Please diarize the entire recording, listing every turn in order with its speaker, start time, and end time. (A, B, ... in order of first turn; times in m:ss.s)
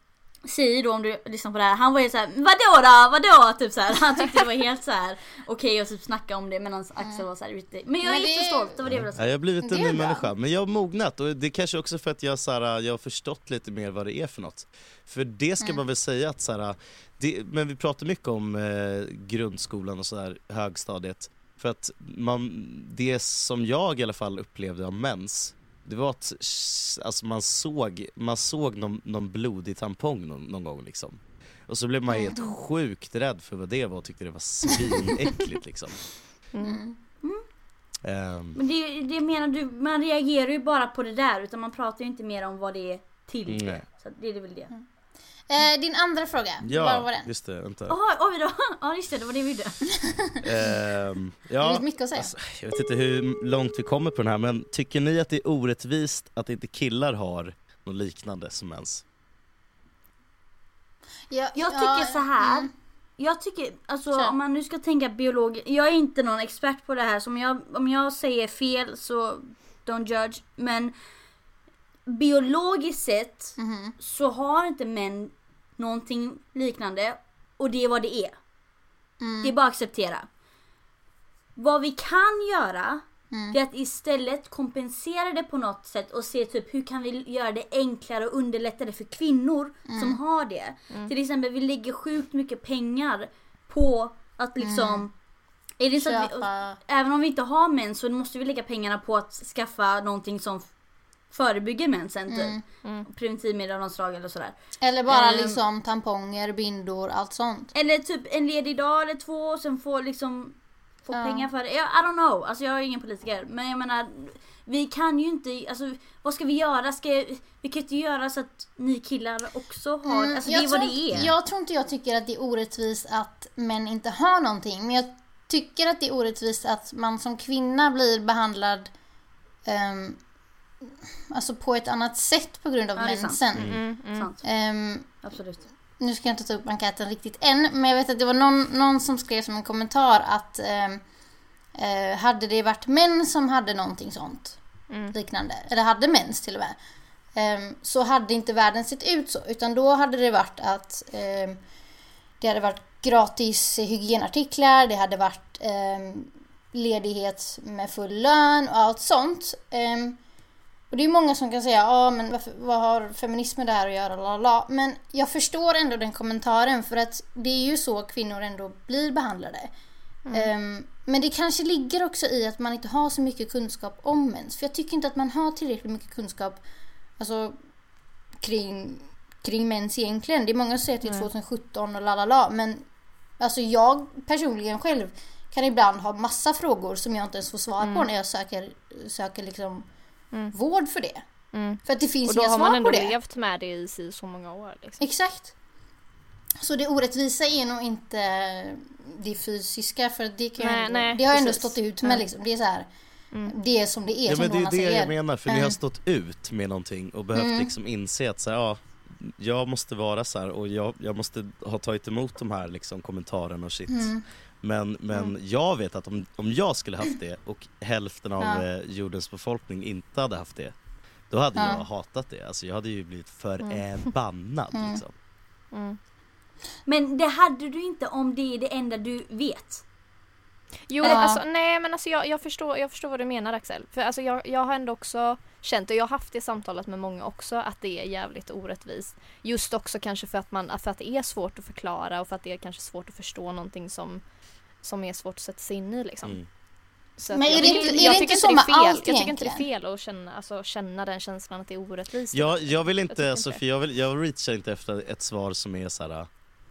0:00.4-0:09.3 A
0:07.0-0:07.2 B
0:08.0-0:08.8 B
0:08.9-0:36.0 C
0:09.6-0:10.3 B
0:32.1-0:32.5 B
0:36.5-0:36.8 D
0:36.6-0:37.0 B
0:38.0-0:38.6 C
0:38.6-0:44.7 A
0:43.5-0:43.8 C
0:45.5-0:47.3 B
0:46.6-0:48.0 C
0:47.9-0:49.9 A
0:50.0-0:50.3 B
0:50.4-0:59.0 C
0:51.6-0:52.3 B
1:01.3-1:02.7 B
1:01.5-1:10.9 A
1:12.1-1:18.3 A
1:13.6-1:13.9 B
1:19.2-1:19.5 B
1:19.4-1:20.3 A
1:21.6-1:35.1 A
1:23.3-1:23.6 B
1:29.9-1:30.2 B
1:34.6-1:35.0 B
1:35.8-1:40.7 A
1:36.0-1:36.8 B
1:41.3-1:44.6 A
1:42.3-1:42.6 B
1:44.8-1:47.7 B
1:45.1-1:45.6 A
1:47.7-2:01.3 A
1:51.1-1:51.5 B
2:00.0-2:08.9 B
2:09.6-2:10.2 B
2:11.3-2:13.8 B
2:13.0-2:13.4 A
2:13.6-2:13.8 C
2:13.6-2:14.3 D
2:14.1-2:14.4 A
2:14.4-2:15.2 B
2:15.1-2:15.6 A
2:16.0-2:21.0 B
2:21.8-2:24.6 B
2:25.1-2:26.8 B
2:27.4-2:31.6 B
2:32.4-2:40.2 B
2:40.9-2:49.7 B
2:50.3-2:56.6 B
2:57.2-2:57.6 B
2:58.4-3:02.8 B
3:03.4-3:09.9 B
3:07.8-3:08.1 D
3:10.5-3:11.2 B
3:11.5-3:15.0 D
3:11.8-3:13.1 B
3:15.0-3:15.5 B
3:16.6-3:22.9 B
3:20.6-3:22.2 D
3:23.5-3:25.8 B
3:24.3-3:40.7 C
3:27.3-3:27.7 B
3:33.9-3:34.2 B
3:41.3-3:45.1 C
3:41.6-3:41.8 B
3:43.6-3:43.9 D
3:44.7-3:45.0 B
3:45.7-3:46.0 D
3:46.8-3:49.8 A
3:50.9-4:04.2 D
3:51.0-3:51.4 B
4:04.8-4:06.4 D
4:07.2-4:13.6 D
4:07.3-4:09.6 B
4:07.5-4:08.2 A
4:12.3-4:16.3 C